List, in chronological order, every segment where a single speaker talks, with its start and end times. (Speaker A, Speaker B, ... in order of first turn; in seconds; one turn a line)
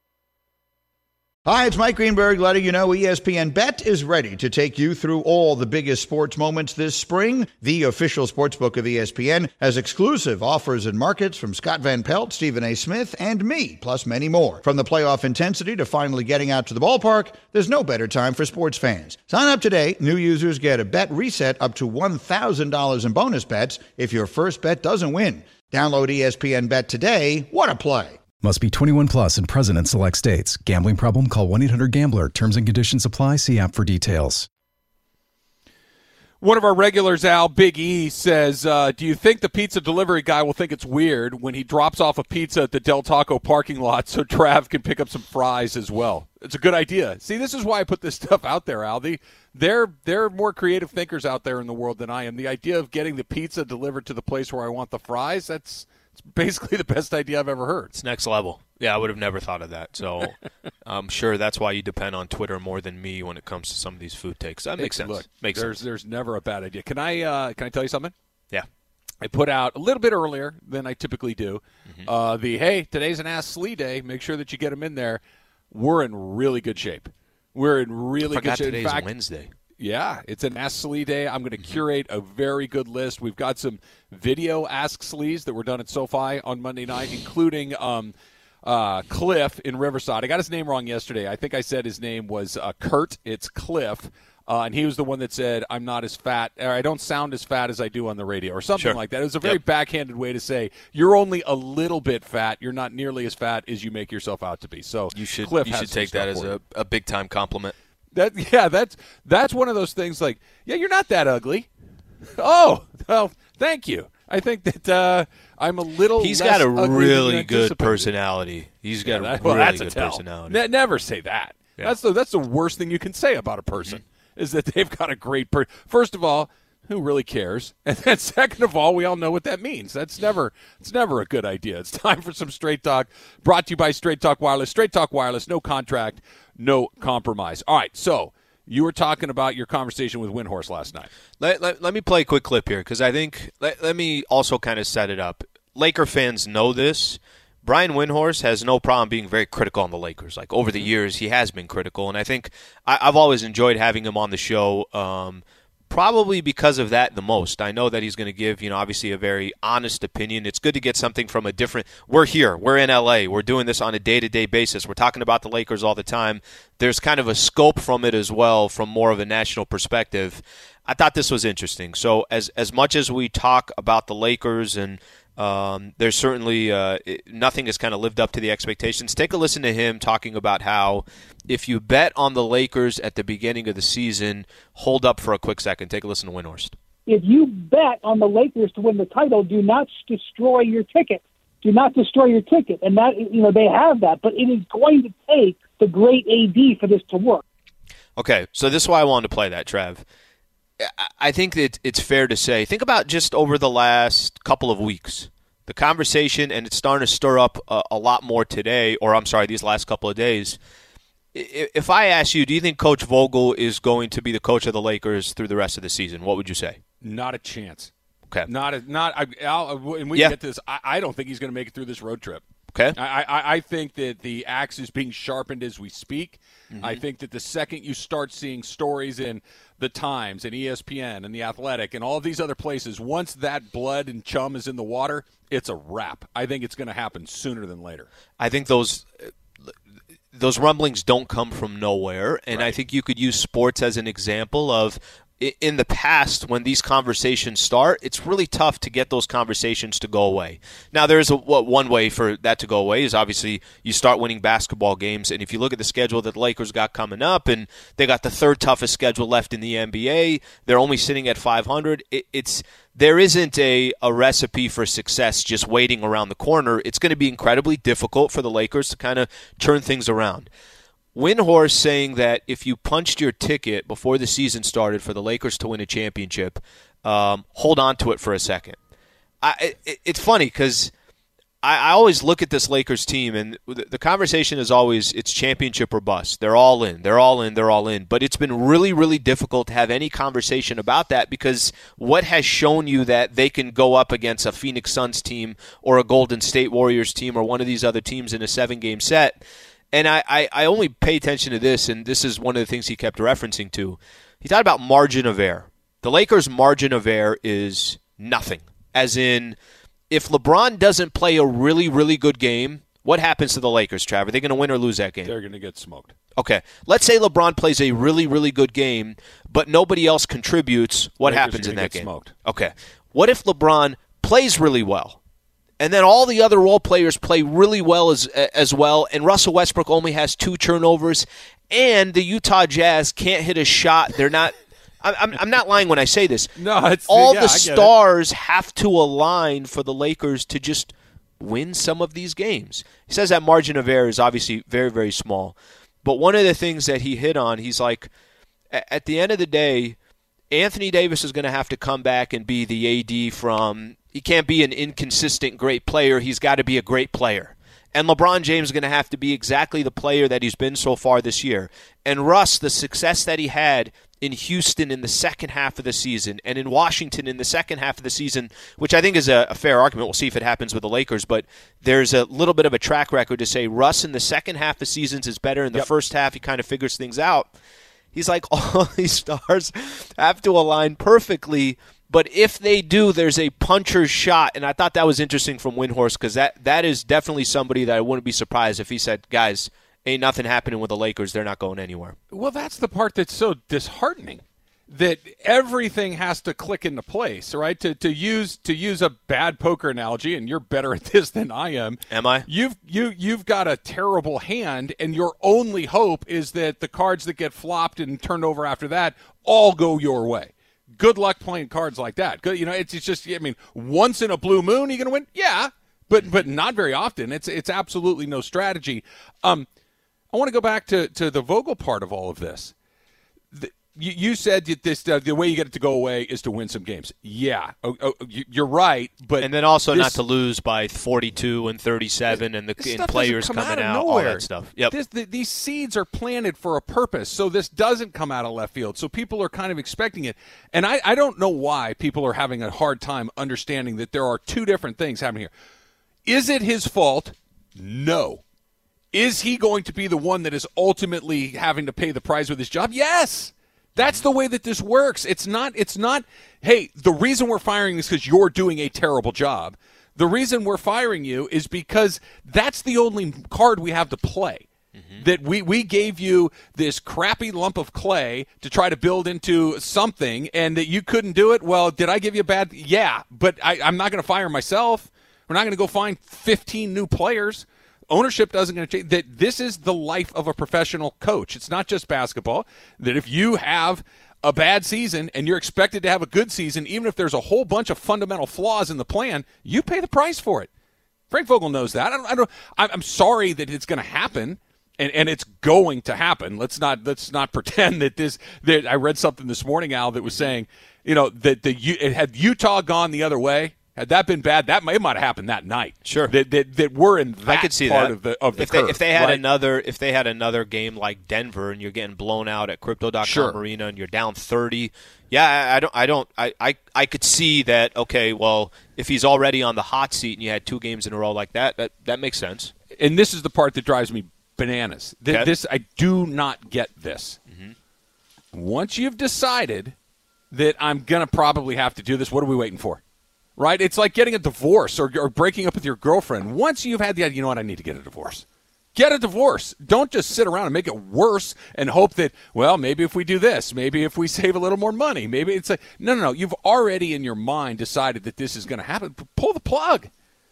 Speaker A: 1.4-28.2
Speaker B: 28.4-34.5
Speaker C: 36.4-57.9
Speaker D: 57.9-65.7
Speaker C: 64.8-68.1
Speaker C: 69.2-79.1
Speaker D: 78.3-79.5
Speaker C: 79.8-106.5
Speaker D: 98.8-99.6
Speaker D: 105.1-107.7
Speaker C: 108.1-111.7
Speaker C: 112.4-118.1
Speaker D: 116.2-120.6
Speaker C: 119.0-141.1
Speaker D: 141.4-186.7
Speaker E: 187.1-197.4
Speaker D: 198.2-200.0
Speaker D: 200.8-210.6
Speaker D: 211.3-216.8
Speaker C: 217.0-217.9
Speaker C: 218.4-238.1
Speaker D: 226.7-227.0
Speaker D: 238.4-239.7
Speaker D: 240.3-270.5
Speaker C: 242.5-242.8
Speaker D: 271.1-278.8
Speaker D: 279.4-280.9
Speaker D: 281.6-299.4
Speaker D: 299.9-309.6
Speaker D: 310.1-315.3
Speaker C: 315.2-316.1
Speaker D: 316.4-325.2
Speaker C: 321.2-322.3
Speaker D: 325.8-336.5
Speaker C: 336.6-337.9
Speaker D: 337.1-348.1
Speaker D: 348.7-349.9
Speaker D: 350.5-377.5
Speaker D: 378.1-392.1
Speaker C: 392.3-419.7
Speaker D: 402.1-402.4
Speaker C: 420.3-422.7
Speaker C: 423.5-430.2
Speaker D: 429.4-434.9
Speaker C: 432.8-445.5
Speaker C: 446.2-448.4
Speaker C: 449.1-464.6
Speaker D: 454.0-454.2
Speaker D: 465.0-465.2
Speaker C: 465.2-490.7
Speaker C: 491.3-509.4
Speaker D: 506.1-506.3
Speaker D: 507.4-522.7
Speaker C: 513.2-513.6
Speaker C: 523.0-527.4
Speaker C: 528.5-529.9
Speaker C: 530.5-533.0
Speaker C: 533.6-550.1